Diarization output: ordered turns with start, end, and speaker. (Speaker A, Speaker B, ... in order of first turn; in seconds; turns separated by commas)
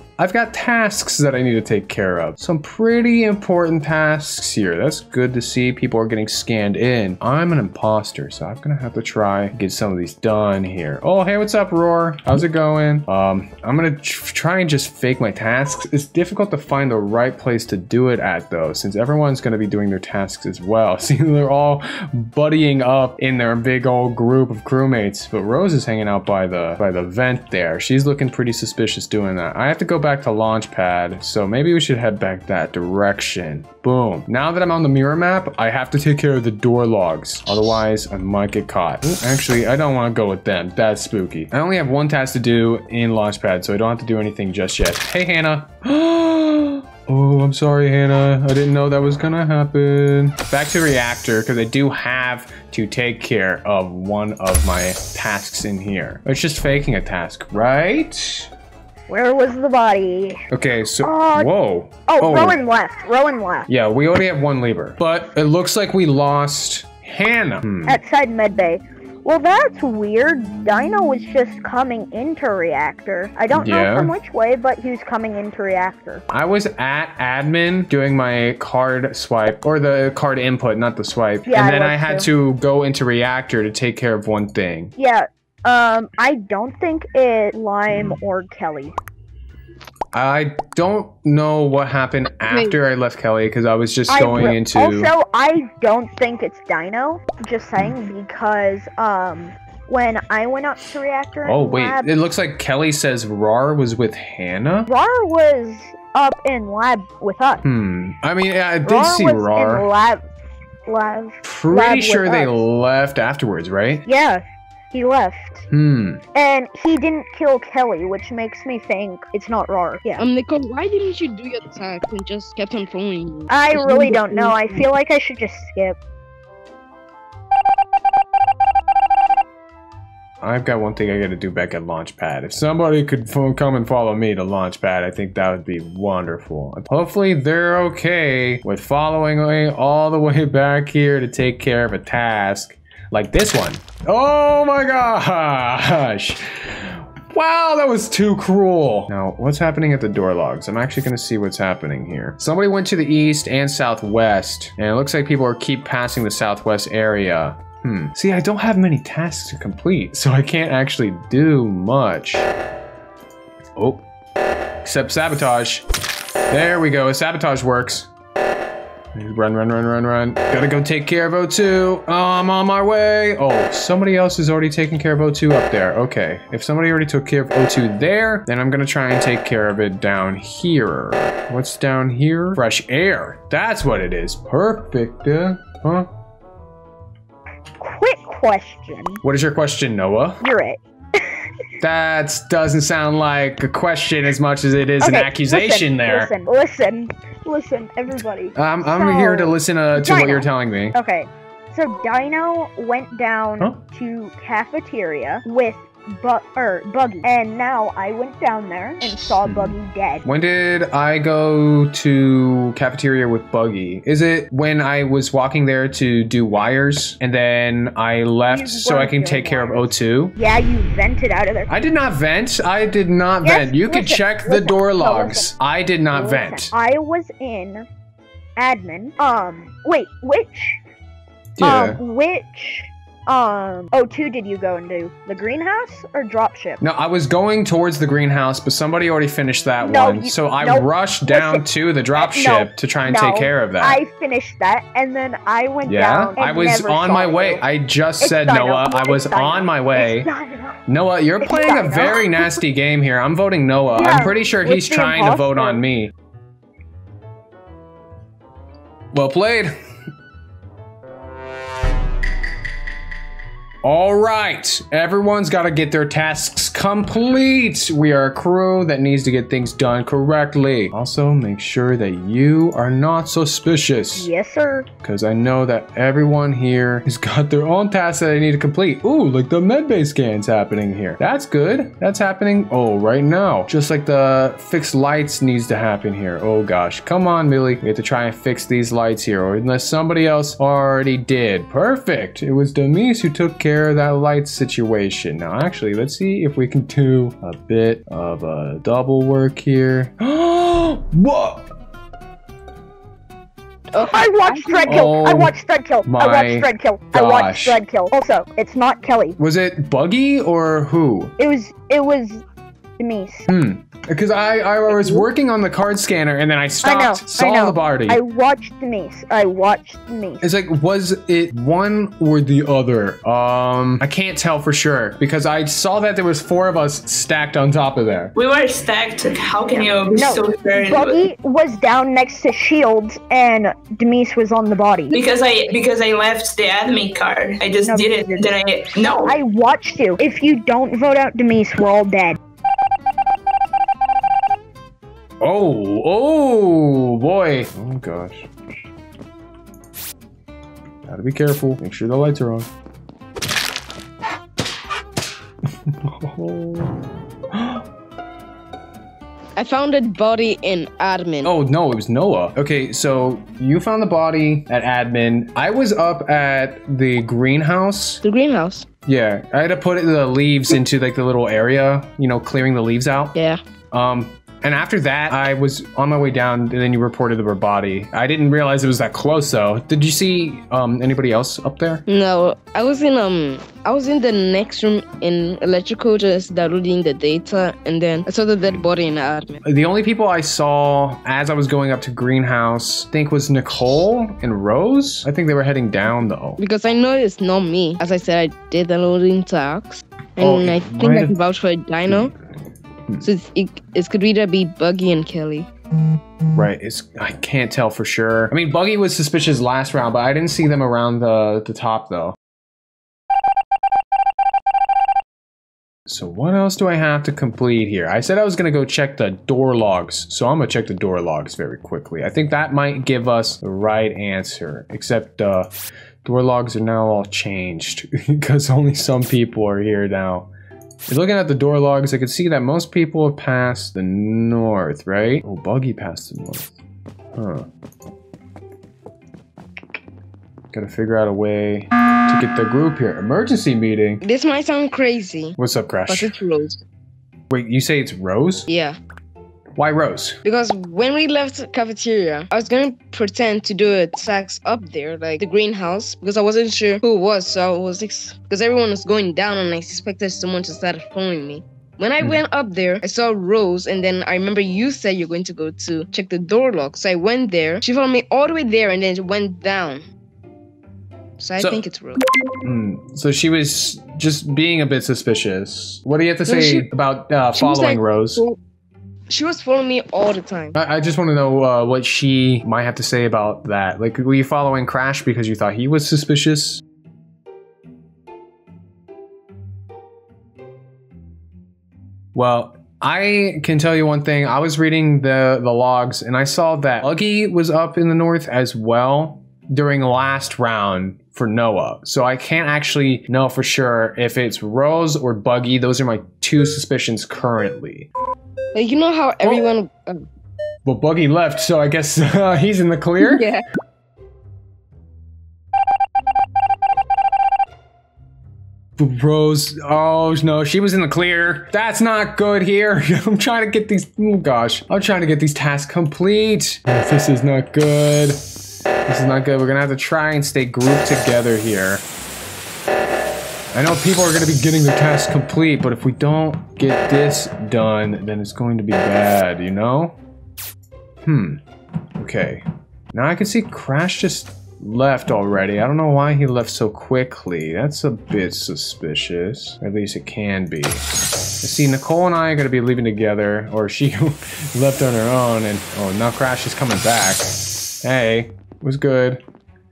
Speaker A: 0.2-58.5, Speaker B: 59.1-60.4, Speaker A: 60.5-62.6, Speaker B: 61.0-61.5, Speaker B: 62.1-63.7, Speaker A: 63.7-68.0, Speaker B: 67.9-76.2, Speaker A: 73.5-74.1, Speaker A: 76.3-84.9, Speaker B: 81.5-82.3, Speaker B: 85.0-89.0, Speaker A: 90.1-95.1, Speaker C: 92.5-92.8, Speaker B: 94.1-102.1, Speaker A: 101.4-104.9, Speaker B: 104.9-107.6, Speaker A: 107.6-109.9, Speaker B: 108.8-110.2, Speaker B: 110.9-112.6, Speaker A: 111.4-114.1, Speaker B: 114.0-115.7, Speaker A: 115.7-116.2, Speaker B: 116.3-120.2, Speaker C: 120.2-124.9, Speaker B: 123.5-126.0, Speaker A: 130.4-162.5, Speaker A: 163.8-164.0, Speaker A: 164.8-165.8, Speaker A: 166.5-168.1, Speaker A: 169.2-186.1, Speaker B: 187.8-189.2, Speaker A: 189.2-190.4, Speaker B: 190.4-191.5, Speaker A: 191.8-196.3, Speaker B: 195.0-210.3, Speaker A: 198.6-201.0, Speaker A: 209.4-220.4, Speaker B: 218.5-221.7, Speaker A: 221.7-226.8, Speaker B: 223.4-225.5, Speaker B: 226.1-227.9, Speaker B: 228.6-230.8, Speaker A: 231.6-232.0, Speaker B: 231.6-236.8, Speaker A: 236.8-244.0, Speaker B: 239.8-241.6, Speaker B: 242.2-247.6, Speaker A: 245.8-250.3, Speaker B: 248.2-250.8, Speaker A: 250.9-256.1, Speaker B: 251.4-252.6, Speaker B: 253.9-255.8, Speaker A: 259.1-259.7, Speaker A: 263.8-274.3, Speaker B: 274.2-274.9, Speaker A: 275.0-301.7, Speaker C: 303.9-304.9, Speaker B: 303.9-309.4, Speaker A: 304.9-305.5, Speaker A: 306.1-307.8, Speaker A: 309.4-311.3, Speaker B: 311.4-312.4, Speaker B: 313.0-313.5, Speaker A: 313.5-318.2, Speaker B: 315.0-315.2, Speaker B: 316.8-320.4, Speaker A: 320.4-328.3, Speaker D: 328.4-331.2, Speaker B: 330.1-335.1, Speaker D: 335.1-339.4, Speaker B: 337.8-338.5, Speaker B: 339.2-342.4, Speaker A: 345.4-348.5, Speaker A: 351.1-352.7, Speaker A: 355.9-356.9, Speaker A: 357.5-357.8, Speaker C: 359.6-361.5, Speaker A: 361.4-368.2, Speaker C: 368.2-368.9, Speaker A: 369.1-373.4, Speaker C: 373.4-373.6, Speaker A: 373.9-382.0, Speaker C: 382.1-389.6, Speaker A: 389.6-396.6, Speaker C: 396.6-402.3, Speaker A: 400.4-401.4, Speaker C: 403.2-405.7, Speaker A: 406.5-412.4, Speaker A: 416.1-425.7, Speaker A: 426.2-430.5, Speaker A: 431.1-436.7, Speaker A: 437.4-437.7, Speaker A: 440.7-444.2, Speaker C: 444.2-446.8, Speaker A: 445.6-446.3, Speaker A: 447.5-448.7, Speaker C: 448.7-449.0, Speaker A: 449.8-450.4, Speaker C: 450.4-470.1, Speaker C: 471.4-472.2, Speaker A: 472.6-478.4, Speaker C: 476.5-476.9, Speaker C: 477.6-478.6, Speaker C: 479.3-480.8, Speaker A: 480.8-486.8, Speaker A: 492.3-508.1, Speaker C: 508.7-510.2, Speaker A: 510.9-513.5, Speaker C: 513.2-513.6, Speaker A: 519.0-528.4, Speaker A: 529.1-532.0, Speaker A: 533.7-540.2, Speaker A: 541.2-541.6, Speaker A: 542.2-551.0, Speaker A: 551.6-557.5, Speaker A: 558.0-559.4